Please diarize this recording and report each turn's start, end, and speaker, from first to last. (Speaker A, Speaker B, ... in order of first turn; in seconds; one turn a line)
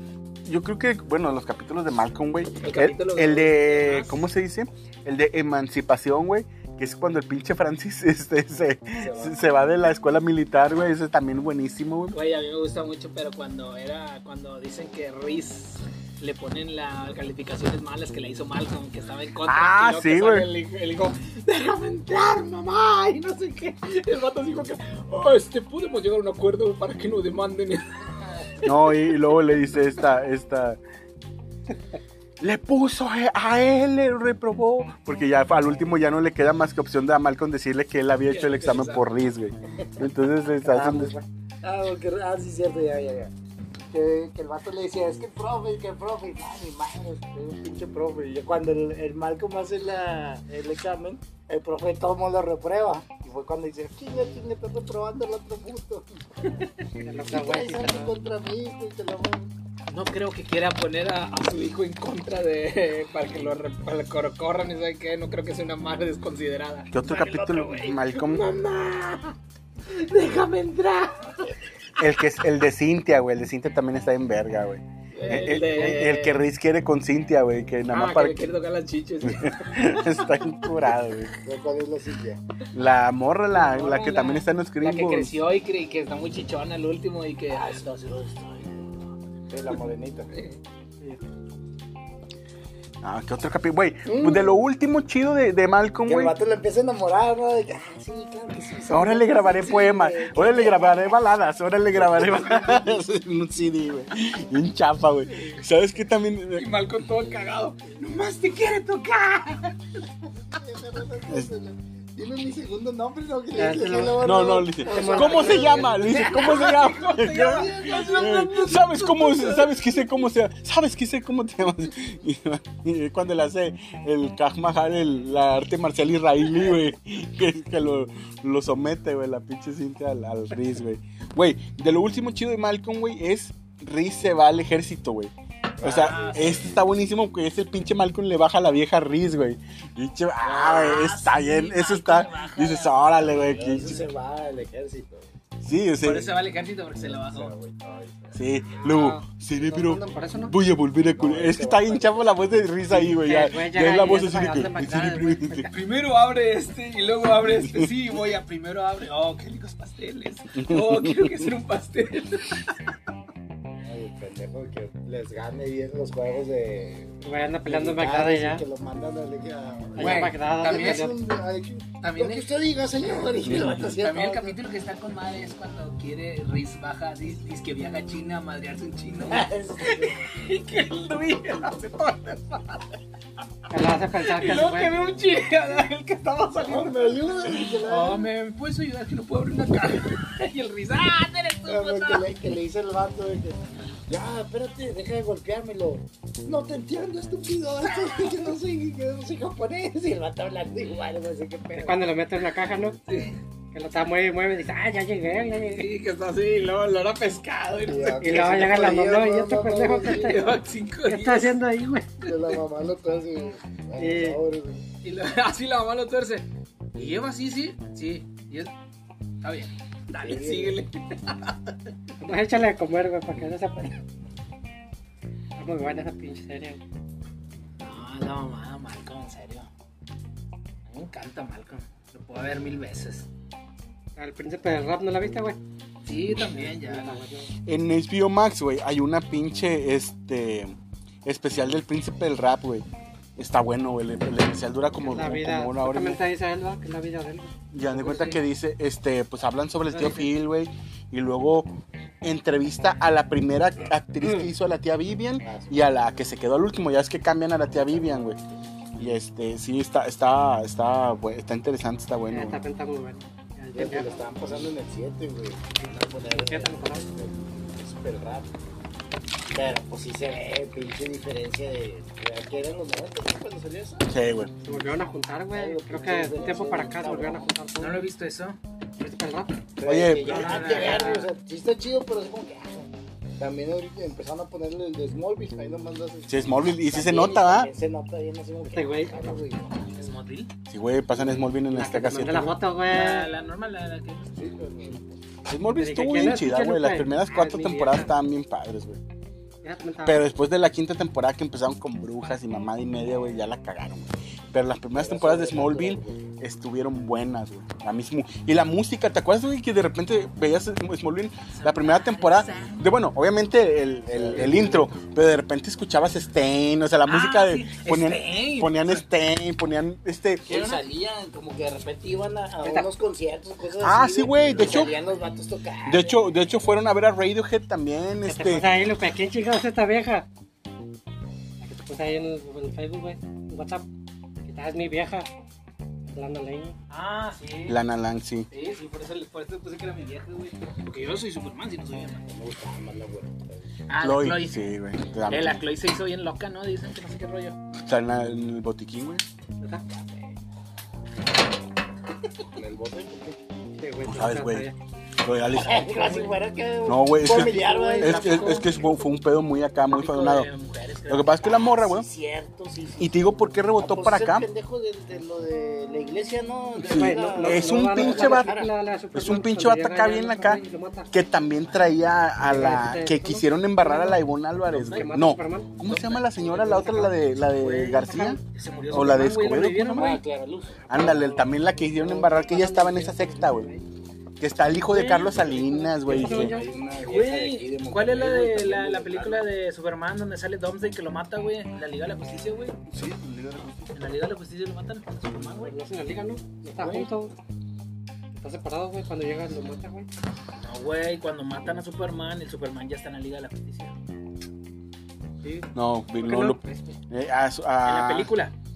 Speaker A: 0.5-12.2
Speaker B: 2.6-4.2
Speaker C: 9.0-9.3
Speaker B: 12.1-29.1
Speaker A: 19.4-20.5
Speaker A: 28.6-30.8
Speaker A: 32.4-41.1
Speaker B: 38.3-39.0
Speaker D: 40.7-41.2
Speaker C: 41.6-43.3
Speaker C: 43.9-56.0
Speaker B: 56.5-56.7
Speaker D: 57.0-58.1
Speaker C: 57.3-59.5
Speaker B: 59.9-69.3
Speaker A: 66.9-68.4
Speaker B: 69.9-71.5
Speaker A: 72.0-78.4
Speaker B: 75.1-76.4
Speaker C: 75.1-75.6
Speaker B: 77.9-80.3
Speaker A: 79.2-81.3
Speaker C: 81.4-82.4
Speaker A: 82.7-85.4
Speaker B: 83.5-89.0
Speaker C: 87.5-87.8
Speaker C: 89.5-90.4
Speaker A: 93.0-96.3
Speaker C: 94.0-94.5
Speaker C: 96.0-101.2
Speaker A: 98.9-106.7
Speaker C: 101.9-103.0
Speaker B: 105.3-105.6
Speaker B: 106.5-110.0
Speaker C: 110.4-119.0
Speaker D: 113.5-115.7
Speaker A: 114.2-144.0
Speaker B: 115.0-119.8
Speaker C: 135.8-136.7
Speaker B: 135.8-136.8
Speaker B: 140.4-144.0
Speaker C: 143.3-145.3
Speaker A: 145.6-146.3
Speaker B: 146.0-147.5
Speaker C: 147.0-148.5
Speaker A: 148.3-155.7
Speaker D: 148.8-150.6
Speaker C: 151.1-152.5
Speaker D: 153.1-155.7
Speaker B: 155.6-162.8
Speaker A: 160.6-161.2
Speaker C: 163.8-174.6
Speaker D: 167.2-168.6
Speaker D: 169.9-171.2
Speaker B: 170.0-171.1
Speaker B: 172.0-172.4
Speaker B: 173.2-182.8
Speaker A: 173.4-173.8
Speaker C: 179.3-180.3
Speaker D: 183.7-184.9
Speaker B: 184.2-192.3
Speaker C: 186.6-188.3
Speaker C: 191.7-202.0
Speaker B: 197.9-198.3
Speaker D: 201.8-203.0
Speaker B: 203.1-203.4
Speaker D: 203.7-205.9
Speaker B: 205.7-208.8
Speaker C: 207.8-210.5
Speaker D: 208.2-210.5
Speaker B: 210.1-211.6
Speaker D: 211.1-212.3
Speaker C: 212.2-214.8
Speaker D: 214.0-214.4
Speaker B: 215.0-218.7
Speaker B: 219.4-221.9
Speaker C: 220.2-220.8
Speaker D: 222.2-224.0
Speaker D: 225.6-226.8
Speaker B: 227.8-229.7
Speaker B: 230.9-233.3
Speaker D: 234.2-235.6
Speaker B: 236.0-237.2
Speaker D: 236.5-237.5
Speaker A: 237.7-242.8
Speaker A: 243.4-246.2
Speaker D: 245.0-247.5
Speaker A: 247.7-251.7
Speaker B: 247.8-248.4
Speaker B: 249.9-250.2
Speaker A: 252.2-258.4
Speaker C: 255.4-255.8
Speaker A: 259.0-262.6
Speaker D: 262.3-264.3
Speaker C: 263.7-268.5
Speaker D: 266.1-267.1
Speaker C: 269.5-274.1
Speaker A: 274.1-274.5
Speaker D: 274.6-278.0
Speaker C: 275.5-277.5
Speaker B: 277.8-278.6
Speaker D: 279.0-279.6
Speaker C: 279.8-290.0
Speaker A: 279.8-280.6
Speaker B: 280.2-281.3
Speaker D: 280.3-281.2
Speaker A: 286.3-287.7
Speaker D: 288.7-289.3
Speaker B: 289.9-290.5
Speaker A: 290.7-292.6
Speaker D: 291.7-293.3
Speaker B: 292.9-294.4
Speaker C: 294.3-295.2
Speaker A: 295.5-299.0
Speaker D: 295.7-298.1
Speaker D: 299.6-300.2
Speaker A: 300.0-320.5
Speaker C: 304.9-306.3
Speaker B: 311.5-312.9
Speaker C: 314.1-314.9
Speaker B: 317.0-319.0
Speaker C: 320.4-326.2
Speaker B: 320.5-320.8
Speaker A: 323.8-324.9
Speaker A: 325.8-328.7
Speaker D: 328.2-330.3
Speaker D: 331.6-333.9
Speaker D: 334.4-335.3
Speaker D: 336.1-336.8
Speaker B: 336.9-337.8
Speaker A: 337.7-338.5
Speaker B: 338.5-342.2
Speaker C: 342.3-343.7
Speaker B: 343.9-344.7
Speaker A: 344.0-345.7
Speaker B: 345.3-347.6
Speaker A: 347.8-349.2
Speaker C: 352.5-353.4
Speaker D: 353.8-354.8
Speaker A: 354.1-354.7
Speaker A: 355.2-355.9
Speaker C: 355.5-358.8
Speaker B: 355.8-356.4
Speaker A: 356.9-360.5
Speaker D: 357.3-357.9
Speaker B: 357.4-359.0
Speaker B: 359.9-361.8
Speaker A: 361.1-362.1
Speaker C: 361.5-368.7
Speaker A: 363.0-364.5
Speaker D: 366.8-371.1
Speaker A: 366.8-368.5
Speaker A: 369.1-370.6
Speaker A: 371.1-380.2
Speaker B: 371.6-372.0
Speaker D: 372.4-375.7
Speaker B: 375.8-380.2
Speaker C: 379.9-381.4
Speaker A: 380.9-383.7
Speaker C: 382.0-382.5
Speaker D: 382.0-383.8
Speaker A: 384.4-386.6
Speaker B: 384.9-385.9
Speaker C: 386.0-389.5
Speaker D: 386.0-386.7
Speaker B: 386.9-392.8
Speaker A: 392.9-393.8
Speaker B: 393.9-395.8
Speaker D: 395.6-397.3
Speaker C: 396.8-397.1
Speaker D: 398.4-400.1
Speaker B: 400.6-403.9
Speaker D: 405.4-405.7
Speaker A: 405.7-408.3
Speaker B: 406.2-407.0
Speaker B: 407.8-408.5